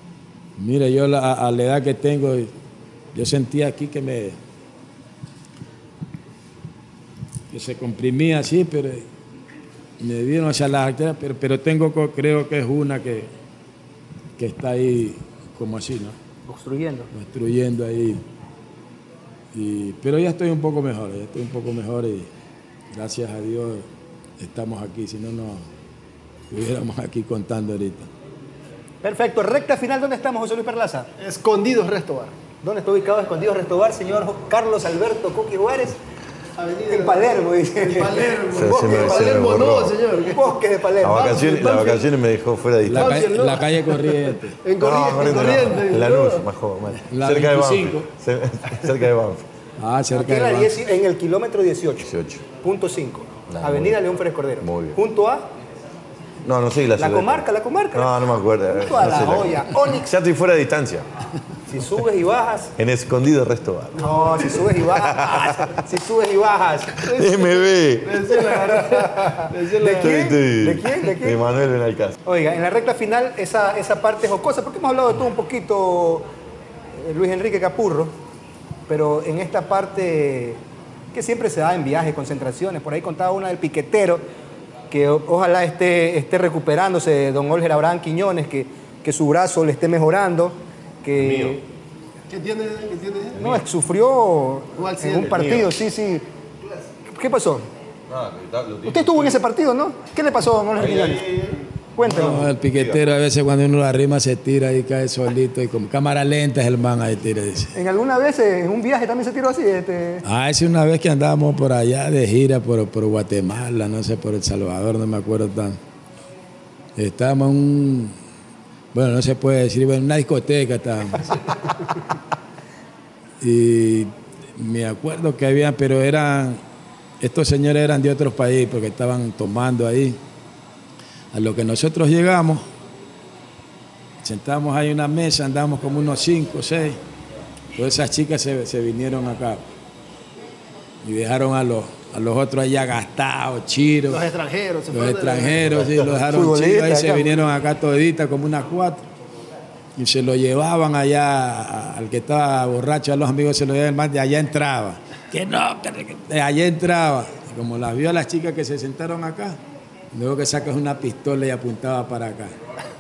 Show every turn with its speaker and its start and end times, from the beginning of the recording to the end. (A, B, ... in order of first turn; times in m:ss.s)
0:00.6-0:02.5 A
0:03.1-0:04.4 A
0:07.5-0:09.1 A
0:10.0-0:13.3 A
0:14.4-0:16.2 A
0:16.5-0:17.1 B
0:17.1-0:18.2 A
0:19.5-0:22.3 A
0:22.9-0:23.9 A
0:24.4-0:25.7 A
0:26.5-0:28.1 A
0:29.0-0:31.1 B
0:31.2-0:32.3 C
0:32.6-0:36.0 B
0:36.6-0:40.6 C
0:36.9-0:39.6 B
0:38.5-0:40.0 D
0:40.2-0:41.8 B
0:41.0-0:43.3 D
0:41.1-0:42.1 C
0:42.8-0:44.6 A
0:42.9-0:46.5 C
0:44.8-0:49.4 D
0:47.1-0:48.1 A
0:49.8-0:50.8 A
0:50.1-0:52.1 B
0:52.0-0:52.4 D
0:52.6-0:55.5 B
0:53.5-0:54.0 D
0:54.6-0:55.0 D
0:56.4-1:01.1 D
0:57.0-0:58.1 B
0:58.7-1:00.1 B
1:01.7-1:02.7 B
1:02.8-1:05.7 D
1:04.0-1:07.1 B
1:04.0-1:04.6 C
1:07.0-1:08.4 D
1:07.0-1:10.3 C
1:08.7-1:11.4 B
1:09.9-1:12.2 D
1:12.2-1:16.3 B
1:17.0-1:18.1 B
1:18.9-1:20.6 B
1:21.1-1:24.2 B
1:24.9-1:31.6 B
1:31.2-1:31.6 D
1:32.3-1:33.4 C
1:33.4-1:33.6 D
1:33.4-1:36.2 B
1:34.8-1:35.5 C
1:35.3-1:35.7 D
1:37.1-1:37.7 B
1:38.1-1:39.4 D
1:38.9-1:41.3 B
1:40.8-1:43.0 D
1:42.0-1:42.5 B
1:42.0-1:47.7 A
1:47.7-1:50.2 B
1:50.2-1:55.8 A
1:57.0-1:58.2 A
1:58.9-2:01.4 A
2:03.4-2:06.6 A
2:07.2-2:10.2 A
2:11.3-2:12.6 A
2:14.2-2:17.0 A
2:17.7-2:19.7 A
2:21.0-2:24.2 A
2:24.1-2:25.8 C
2:24.9-2:29.1 A
2:26.3-2:27.3 B
2:30.0-2:39.6 A
2:40.1-2:42.6 A